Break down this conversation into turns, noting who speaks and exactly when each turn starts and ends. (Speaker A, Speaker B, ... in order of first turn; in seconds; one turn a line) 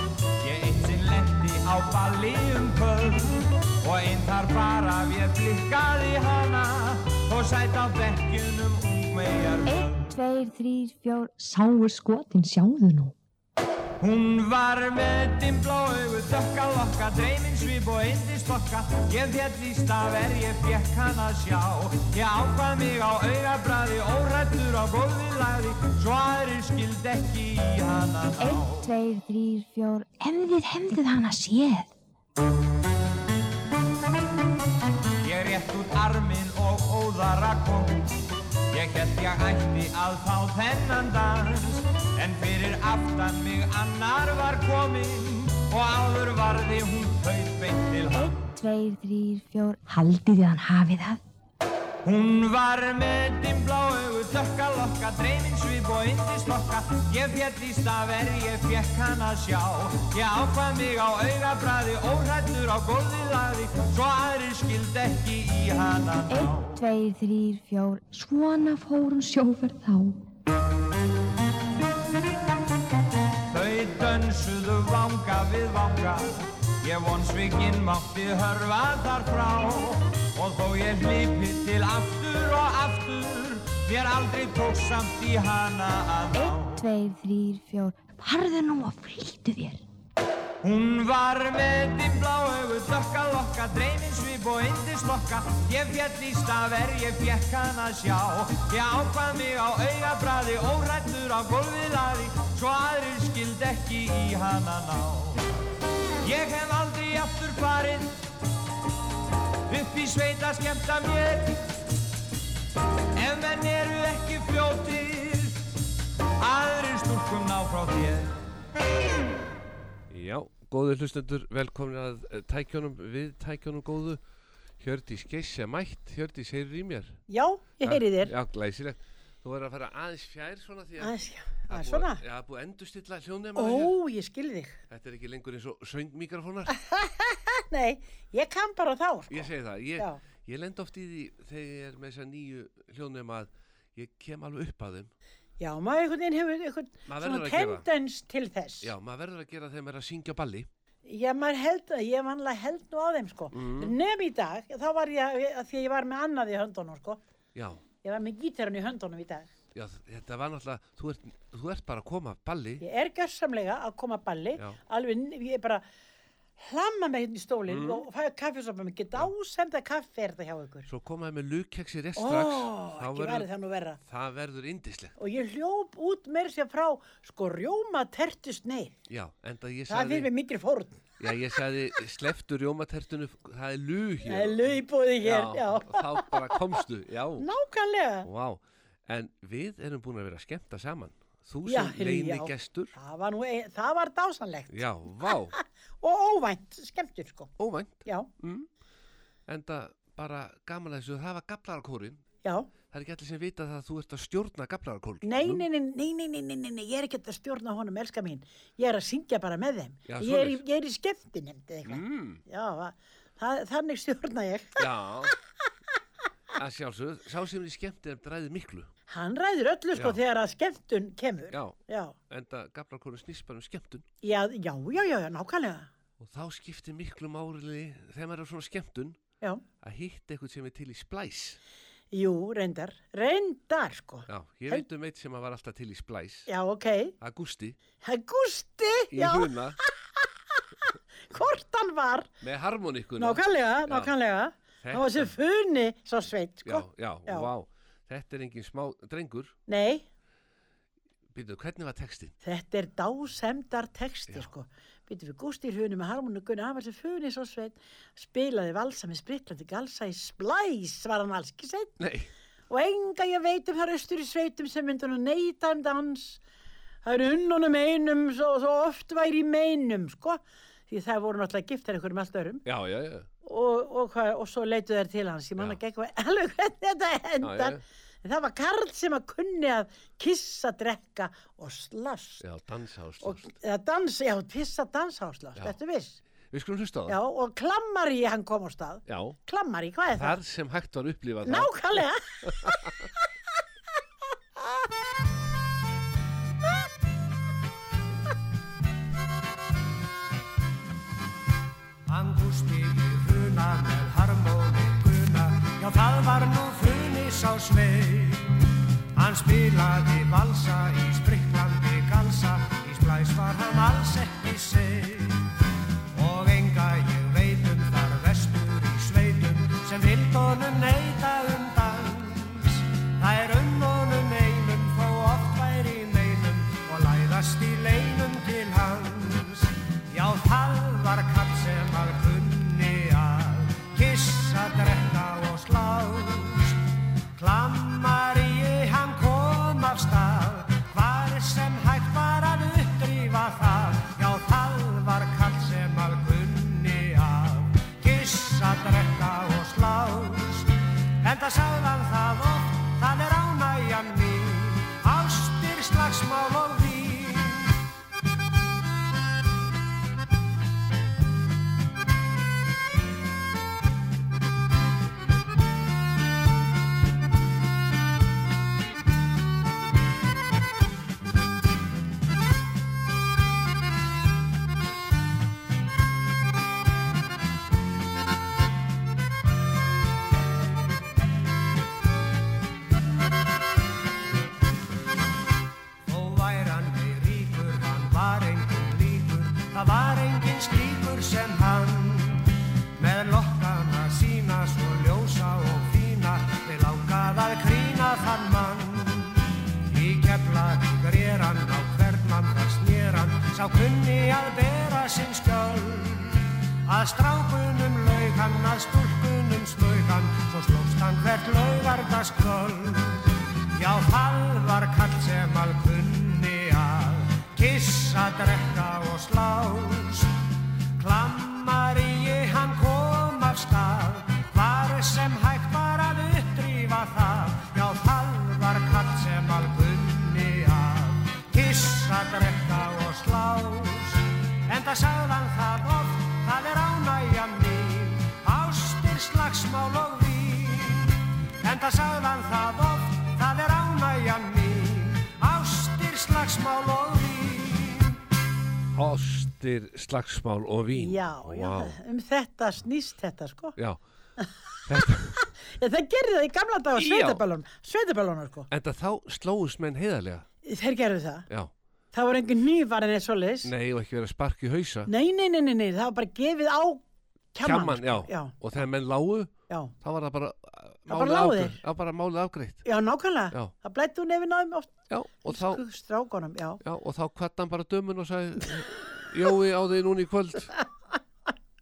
Speaker A: 0.4-10.1
Speaker B: 9.7-13.1
Speaker A: 14.0-28.9
Speaker B: 28.4-31.9
Speaker A: 35.2-38.1
Speaker A: 38.7-48.4
Speaker B: 48.1-51.2
Speaker A: 52.0-66.8
Speaker B: 66.3-70.2
Speaker A: 73.5-86.8
Speaker B: 86.3-89.8
Speaker A: 90.6-105.5
Speaker A: 106.2-108.2
Speaker A: 109.7-111.6
Speaker A: 113.2-115.6
Speaker A: 116.4-118.4
Speaker C: 120.1-124.2
Speaker C: 124.8-127.2
Speaker D: 127.3-128.3
Speaker C: 127.8-131.1
Speaker D: 131.0-132.2
Speaker C: 131.7-133.9
Speaker D: 133.6-134.8
Speaker C: 134.9-136.8
Speaker D: 136.7-140.2
Speaker C: 139.3-145.1
Speaker D: 145.6-148.9
Speaker C: 147.1-147.8
Speaker C: 148.8-150.7
Speaker D: 151.1-157.2
Speaker C: 153.5-153.9
Speaker C: 157.6-157.8
Speaker D: 158.0-159.5
Speaker C: 159.7-162.8
Speaker D: 162.8-165.8
Speaker D: 166.6-170.9
Speaker C: 167.7-168.0
Speaker C: 170.9-173.5
Speaker D: 172.2-174.0
Speaker C: 174.1-175.2
Speaker D: 175.2-178.9
Speaker C: 179.1-180.3
Speaker D: 179.9-181.0
Speaker C: 181.2-187.5
Speaker D: 184.3-186.6
Speaker D: 187.4-188.3
Speaker C: 188.2-192.9
Speaker D: 191.7-195.4
Speaker C: 194.7-195.6
Speaker D: 196.0-197.5
Speaker C: 197.6-198.7
Speaker C: 199.5-202.2
Speaker D: 202.4-202.7
Speaker C: 202.9-205.6
Speaker D: 205.2-214.8
Speaker C: 210.1-210.6
Speaker C: 211.9-212.4
Speaker C: 214.8-215.3
Speaker C: 216.6-218.9
Speaker D: 219.1-222.2
Speaker C: 222.3-224.1
Speaker D: 224.2-225.9
Speaker C: 226.2-229.2
Speaker C: 229.8-231.6
Speaker D: 232.1-234.8
Speaker C: 234.3-236.5
Speaker D: 236.5-237.2
Speaker C: 237.2-237.8
Speaker D: 238.0-240.3
Speaker C: 239.1-239.8
Speaker D: 241.3-242.3
Speaker C: 242.4-244.1
Speaker D: 243.2-247.5
Speaker C: 244.8-245.3
Speaker C: 246.7-249.6
Speaker D: 249.7-250.1
Speaker C: 251.3-252.3
Speaker D: 252.4-262.0
Speaker C: 262.0-262.3
Speaker D: 262.7-266.4
Speaker D: 267.0-272.6
Speaker C: 272.6-273.3
Speaker D: 273.4-282.4
Speaker C: 277.4-277.8
Speaker C: 282.4-283.5
Speaker D: 283.2-286.2
Speaker C: 286.5-287.2
Speaker D: 287.1-290.4
Speaker C: 289.1-289.4
Speaker C: 290.1-291.9
Speaker D: 291.4-292.8
Speaker C: 292.5-292.9
Speaker E: 302.1-308.6
Speaker E: 309.2-315.6
Speaker E: 316.1-336.8
Speaker E: 337.4-357.8
Speaker E: 386.1-420.4
Speaker E: 421.0-448.2
Speaker C: 448.9-451.9
Speaker D: 450.9-453.8
Speaker C: 454.9-455.4
Speaker D: 455.7-458.7
Speaker C: 457.0-457.4
Speaker C: 458.7-460.5
Speaker D: 460.6-461.5
Speaker D: 462.1-463.7
Speaker C: 463.6-465.1
Speaker D: 465.1-467.0
Speaker D: 467.5-468.5
Speaker C: 467.6-472.9
Speaker D: 471.1-471.8
Speaker D: 472.9-476.8
Speaker C: 475.1-475.8
Speaker C: 476.8-480.7